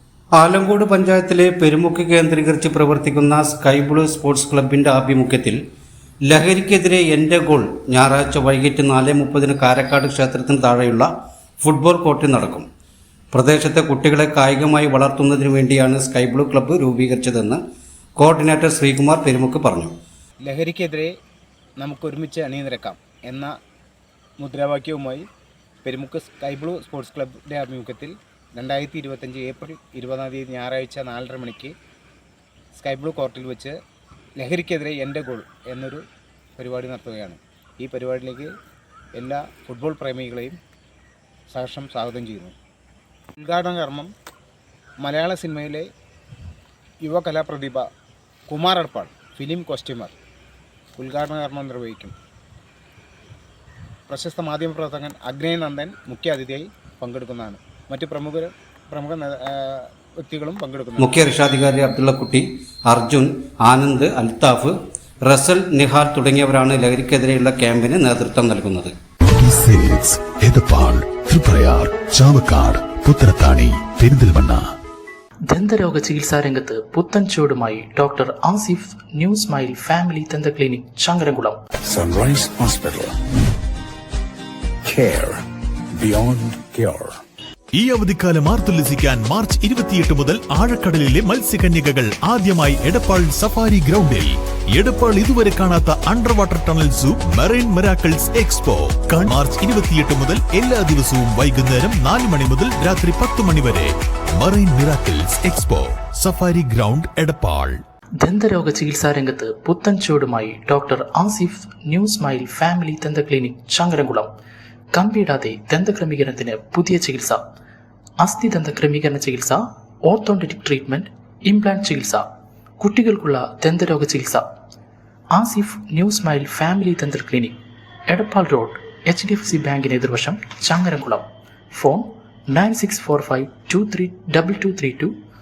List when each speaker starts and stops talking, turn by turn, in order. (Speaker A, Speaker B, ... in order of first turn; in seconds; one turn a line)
Speaker A: 0.4-5.6
Speaker A: 6.3-11.1
Speaker A: 11.6-12.7
Speaker A: 13.3-17.6
Speaker A: 18.2-19.9
Speaker B: 20.4-21.1
Speaker B: 21.8-23.6
Speaker B: 24.4-25.3
Speaker B: 25.8-31.7
Speaker B: 32.8-33.8
Speaker B: 34.4-36.0
Speaker B: 36.6-38.5
Speaker B: 39.1-40.6
Speaker B: 41.5-42.5
Speaker B: 43.4-44.1
Speaker B: 45.0-45.9
Speaker B: 47.0-47.9
Speaker B: 48.5-50.2
Speaker B: 51.0-52.1
Speaker B: 54.1-61.2
Speaker A: 61.0-64.7
Speaker A: 65.2-68.9
Speaker C: 69.4-74.6
Speaker D: 75.5-81.6
Speaker E: 81.8-83.2
Speaker E: 84.9-85.4
Speaker E: 86.0-87.2
Speaker C: 87.8-107.8
Speaker D: 108.2-114.3
Speaker D: 114.9-117.4
Speaker D: 118.2-122.2
Speaker D: 122.8-124.4
Speaker D: 125.3-127.5
Speaker D: 128.1-135.1